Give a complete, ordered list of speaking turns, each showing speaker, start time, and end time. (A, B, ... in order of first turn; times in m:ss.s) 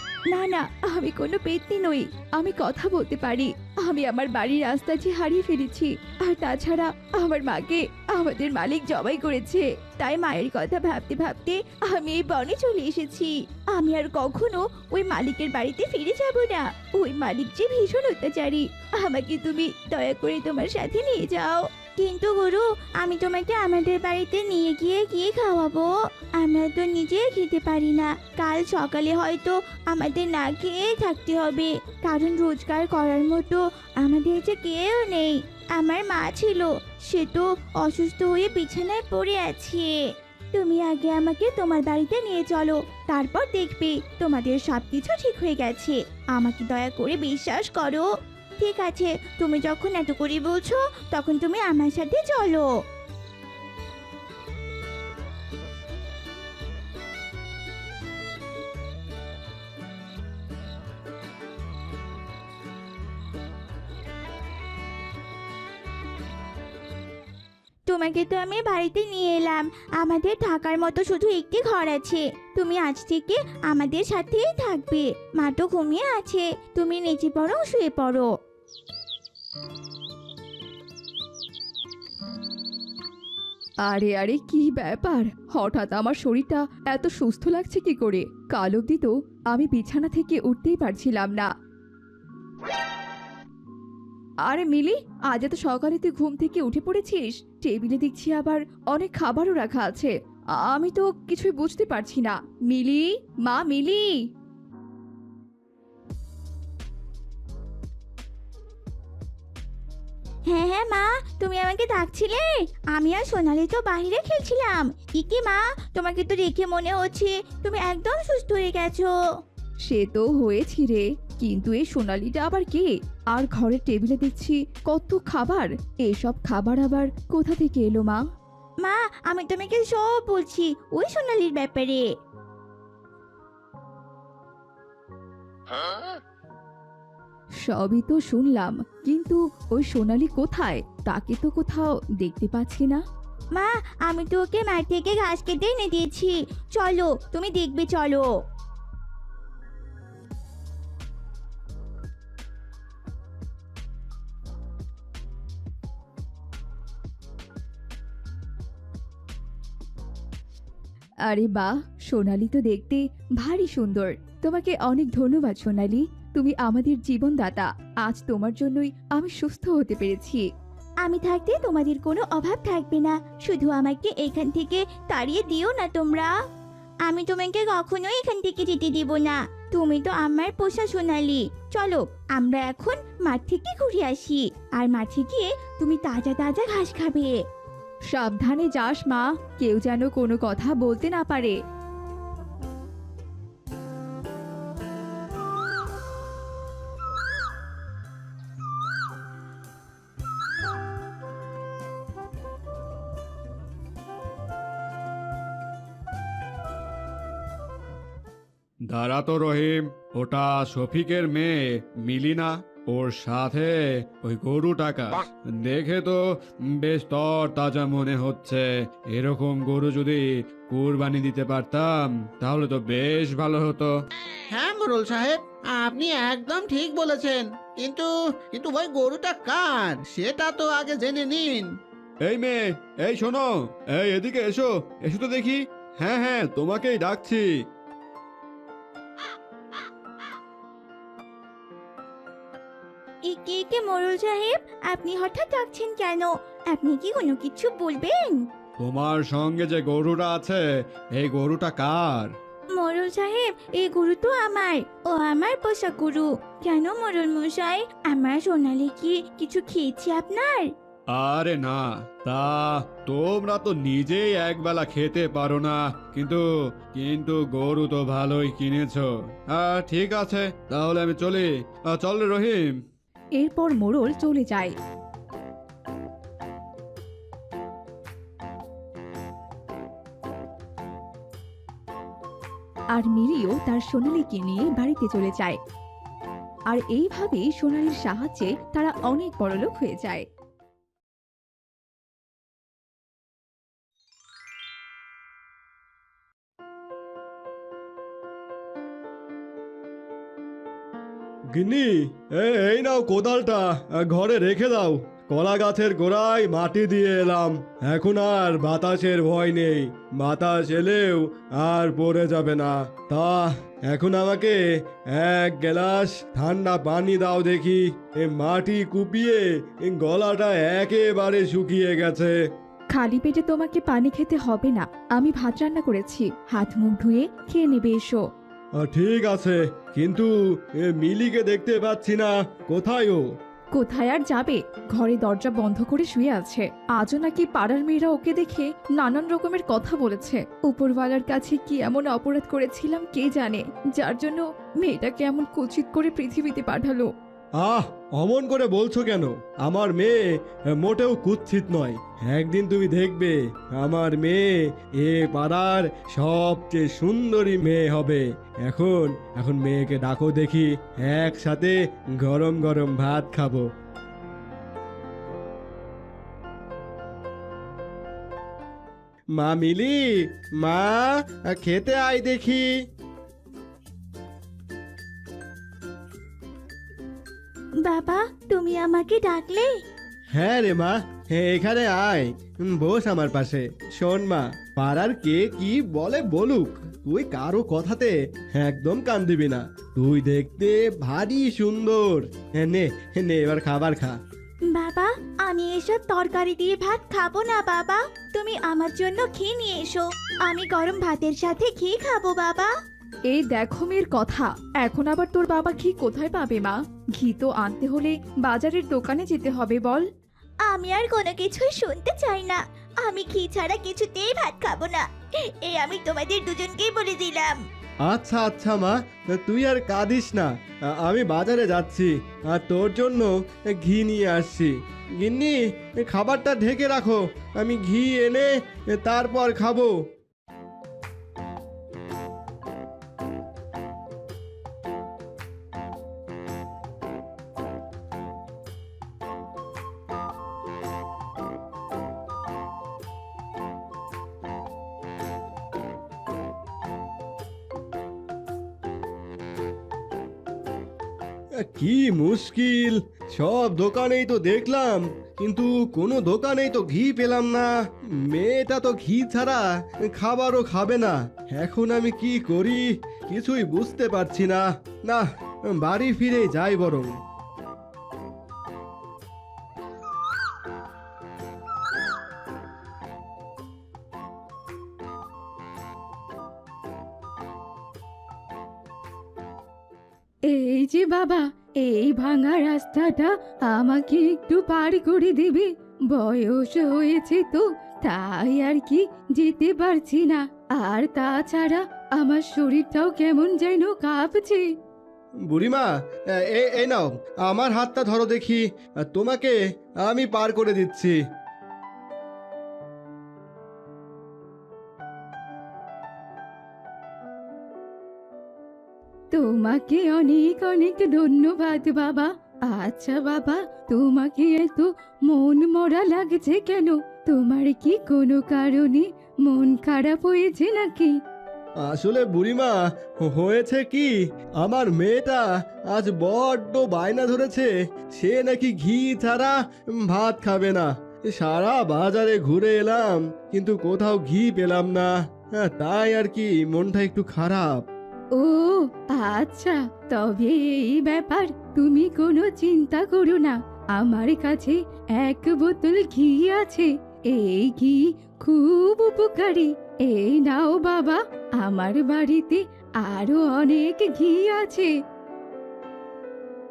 0:00.3-0:13.3 A
0:13.7-0:40.0 B
0:40.5-0:48.1 B
0:48.6-0:52.7 B
1:07.9-1:18.3 B
1:23.8-1:31.5 A
1:34.4-1:44.1 A
1:50.5-1:59.1 B
1:59.9-2:08.2 A
2:08.8-2:12.0 B
2:17.7-2:23.0 A
2:23.5-2:28.3 B
2:41.3-2:50.4 A
2:51.0-2:56.3 B
2:57.0-3:07.4 B
3:08.1-3:11.6 A
3:28.9-3:36.2 C
3:36.7-3:43.9 C
3:44.5-3:51.7 D
3:52.2-3:57.5 C
4:03.2-4:08.4 B
4:08.8-4:12.3 C
4:12.7-4:20.7 B
4:21.1-4:32.7 C
4:33.4-4:34.7 A
4:42.9-4:45.6 A
4:46.7-4:50.2 A
5:01.5-5:14.6 E
5:15.1-5:22.4 E
5:22.9-5:28.2 A
5:28.8-5:33.2 E
5:33.7-5:47.1 A
5:47.6-5:50.2 E
5:50.7-6:03.6 E
6:09.4-6:10.1 E
6:10.6-6:12.6 E
6:17.8-6:19.7 B
6:20.3-6:34.2 E
6:34.7-6:42.7 B
6:43.3-6:50.0 A
6:50.6-6:55.1 B
6:55.6-6:57.6 B
6:58.0-7:10.0 E
7:31.6-7:47.2 E
8:00.5-8:14.6 A
8:15.5-8:21.2 E
8:29.3-8:41.1 A
8:41.8-8:57.8 E
8:58.4-9:14.9 A